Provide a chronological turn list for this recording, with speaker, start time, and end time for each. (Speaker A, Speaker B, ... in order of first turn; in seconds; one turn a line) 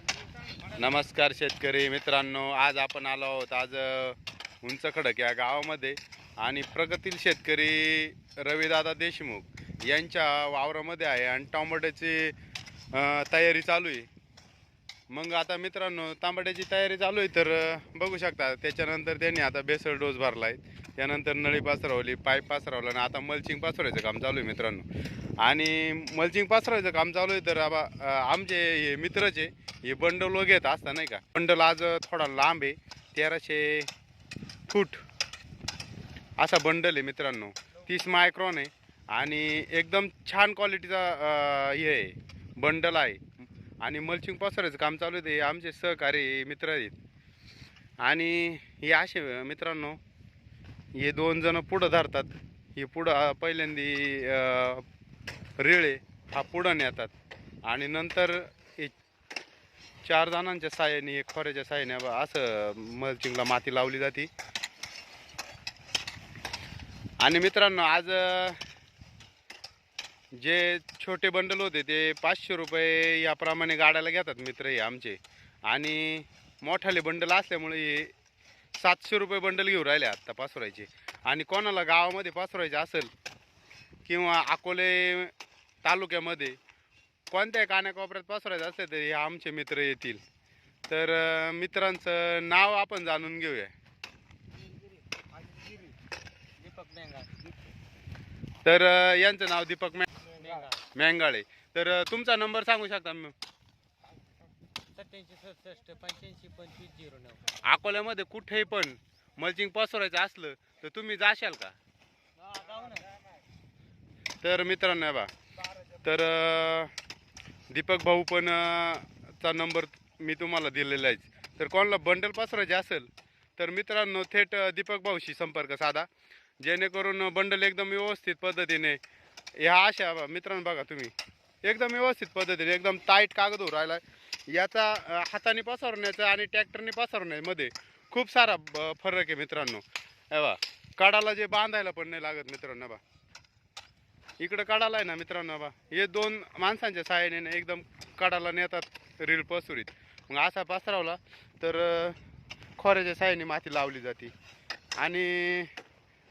Speaker A: 0.7-12.4
Speaker A: 12.9-14.1
Speaker A: 15.1-24.9
Speaker A: 25.4-33.9
Speaker A: 34.7-35.0
Speaker A: 36.4-47.0
Speaker A: 48.0-50.0
Speaker A: 51.0-54.9
Speaker A: 55.6-57.1
Speaker A: 57.7-59.0
Speaker A: 60.0-64.3
Speaker A: 67.2-68.6
Speaker A: 70.3-78.1
Speaker A: 78.8-83.1
Speaker A: 84.1-86.6
Speaker A: 87.3-90.2
Speaker A: 90.9-93.7
Speaker B: 95.5-95.9
Speaker B: 96.6-97.4
Speaker A: 98.7-100.3
Speaker B: 100.3-100.8
Speaker A: 100.9-103.3
Speaker B: 104.9-107.5
Speaker A: 107.5-111.8
Speaker B: 112.5-113.1
Speaker A: 114.4-115.3
Speaker A: 116.0-116.9
Speaker A: 117.7-126.1
Speaker A: 126.6-129.0
Speaker A: 129.6-143.0
Speaker A: 144.4-152.2
Speaker A: 152.8-154.3
Speaker A: 155.0-155.7